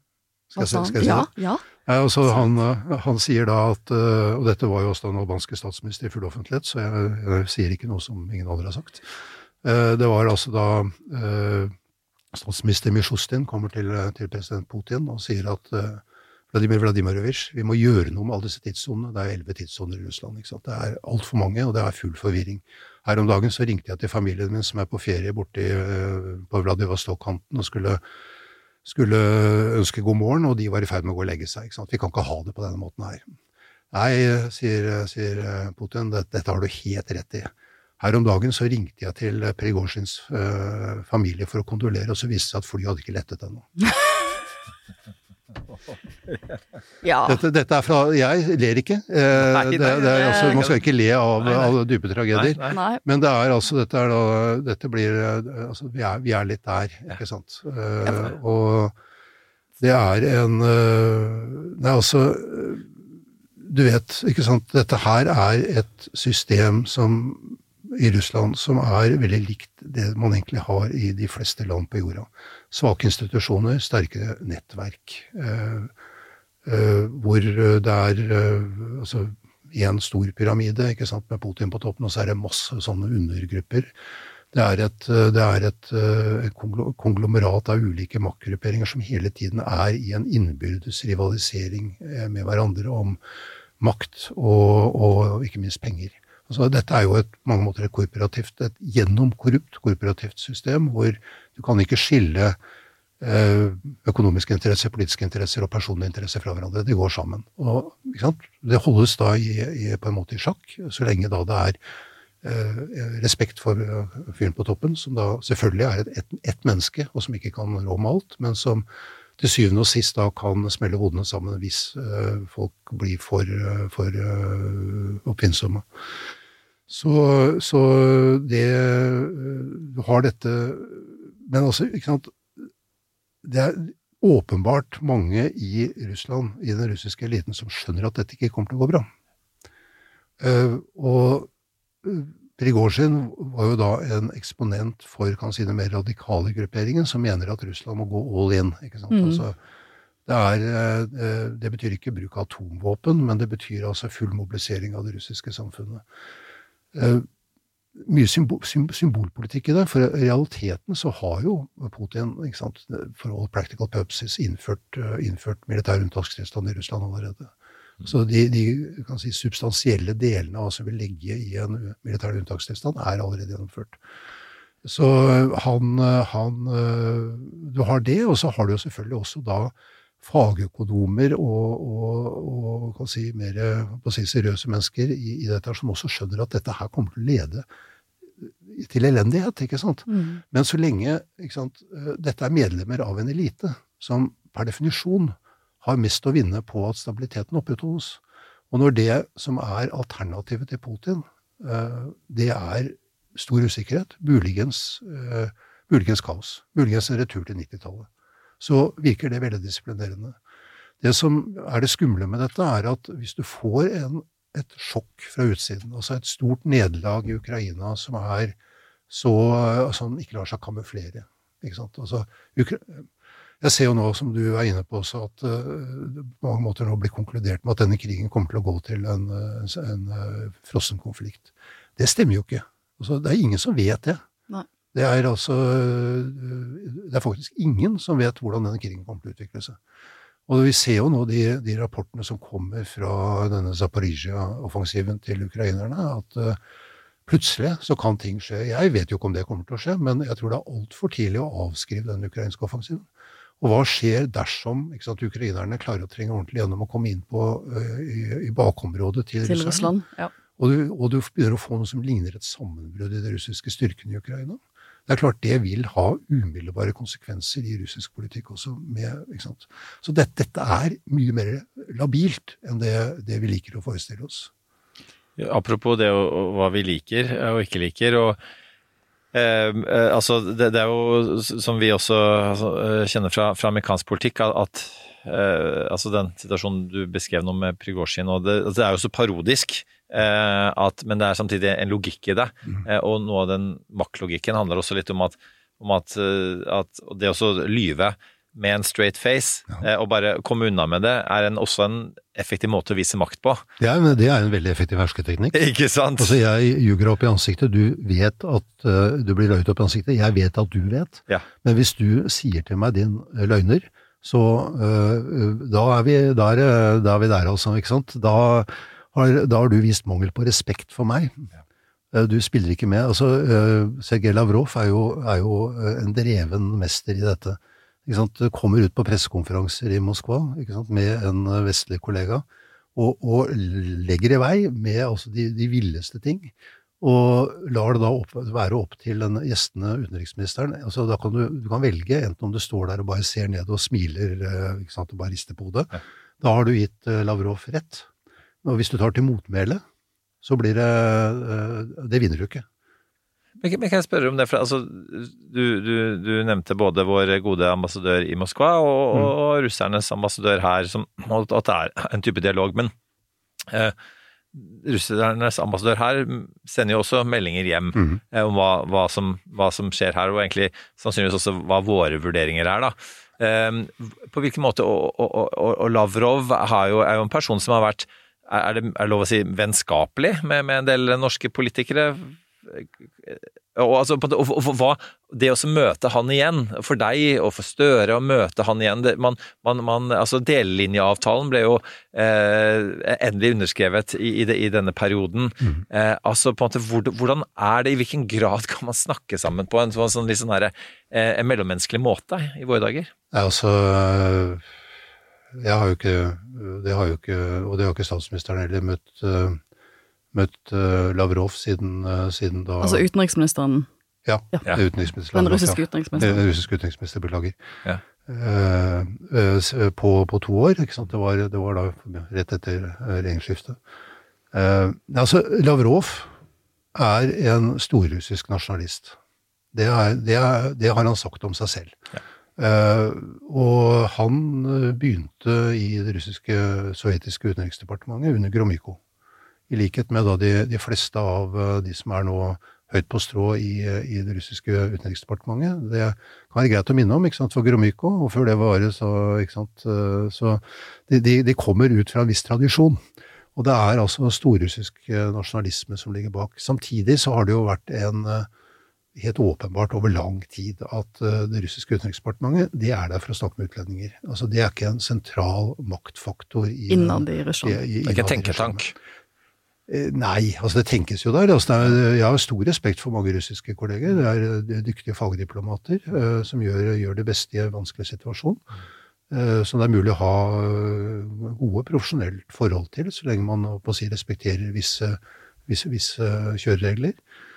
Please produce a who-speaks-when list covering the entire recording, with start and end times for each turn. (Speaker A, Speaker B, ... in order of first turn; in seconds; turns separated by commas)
Speaker A: 0.5-1.3, Speaker B: 0.6-1.6, Speaker A: 1.9-9.1, Speaker A: 9.6-11.7, Speaker A: 12.3-28.0, Speaker A: 28.8-33.3, Speaker A: 33.9-43.7, Speaker B: 47.0-47.4, Speaker A: 47.3-59.0, Speaker C: 49.4-50.8, Speaker B: 50.2-50.6, Speaker C: 51.4-51.8, Speaker C: 52.3-52.8, Speaker B: 52.7-53.0, Speaker A: 59.8-62.9, Speaker A: 63.6-75.9, Speaker A: 76.7-83.9, Speaker A: 84.5-93.2, Speaker A: 93.8-102.6, Speaker A: 103.2-111.8, Speaker A: 112.4-118.9, Speaker A: 119.4-125.8, Speaker A: 126.9-132.4, Speaker A: 133.4-139.1, Speaker A: 140.4-141.5, Speaker A: 142.0-149.6, Speaker B: 149.1-149.4, Speaker A: 150.3-156.1, Speaker A: 156.9-157.3, Speaker A: 158.0-174.0, Speaker A: 174.8-187.7, Speaker A: 188.4-198.2, Speaker B: 190.1-190.4, Speaker A: 198.7-208.1, Speaker A: 208.6-210.4, Speaker A: 211.0-218.6, Speaker A: 219.1-223.1, Speaker A: 223.6-234.2, Speaker A: 234.9-239.8, Speaker A: 240.5-246.6, Speaker A: 247.3-253.1, Speaker A: 253.6-259.9, Speaker B: 259.4-260.3, Speaker A: 260.6-274.5, Speaker C: 275.4-278.4, Speaker C: 279.3-303.6, Speaker A: 303.8-305.7, Speaker C: 305.6-306.4, Speaker A: 306.2-321.4, Speaker A: 322.1-348.1, Speaker A: 348.6-349.8, Speaker A: 350.4-352.7, Speaker C: 353.6-362.9, Speaker C: 363.7-363.9, Speaker C: 364.5-403.1, Speaker A: 403.3-404.6, Speaker A: 405.5-409.6, Speaker A: 410.3-413.0, Speaker B: 412.8-413.9, Speaker A: 414.2-417.6, Speaker B: 415.3-416.4, Speaker A: 418.3-423.8, Speaker A: 424.5-426.3, Speaker A: 426.9-429.2, Speaker A: 429.7-432.0, Speaker A: 432.6-439.0, Speaker A: 439.7-453.0, Speaker A: 453.6-458.5, Speaker A: 459.1-468.9, Speaker B: 466.9-467.8, Speaker C: 468.1-468.9, Speaker A: 469.9-478.6, Speaker A: 479.3-487.2